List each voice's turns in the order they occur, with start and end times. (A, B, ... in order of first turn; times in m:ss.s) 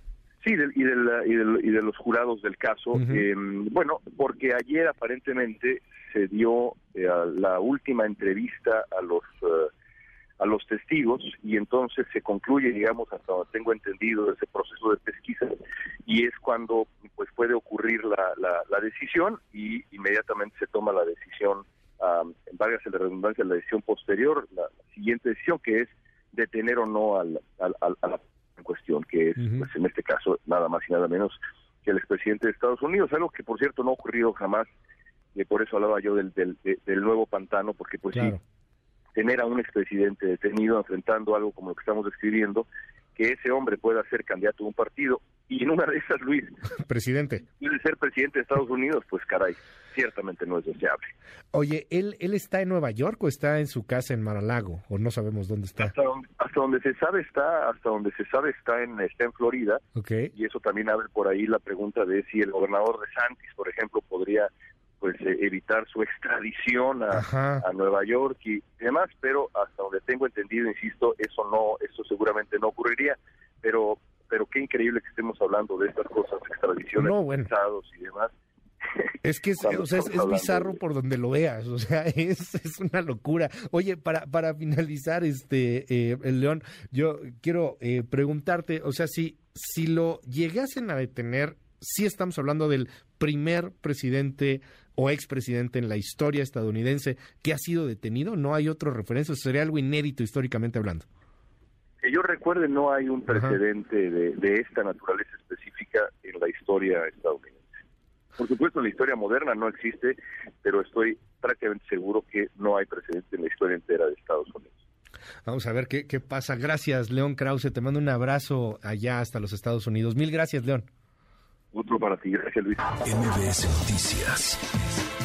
0:00.4-0:09.7 A
0:03.0-0:03.2 B
0:10.4-0:34.7 A
0:35.4-0:38.4 A
0:38.1-0:38.4 B
0:39.2-0:46.6 A
0:46.9-0:47.4 B
0:47.6-0:51.1 A
0:51.5-0:55.9 B
0:55.8-0:59.8 A
1:00.0-1:00.3 B
1:00.3-1:18.3 A
1:07.1-1:07.6 B
1:17.0-1:17.5 B
1:19.0-1:20.8 A
1:19.2-1:41.1 B
1:42.0-1:47.6 A
1:43.3-1:43.6 B
1:48.4-1:54.7 A
1:55.5-2:00.9 B
2:01.7-2:02.8 A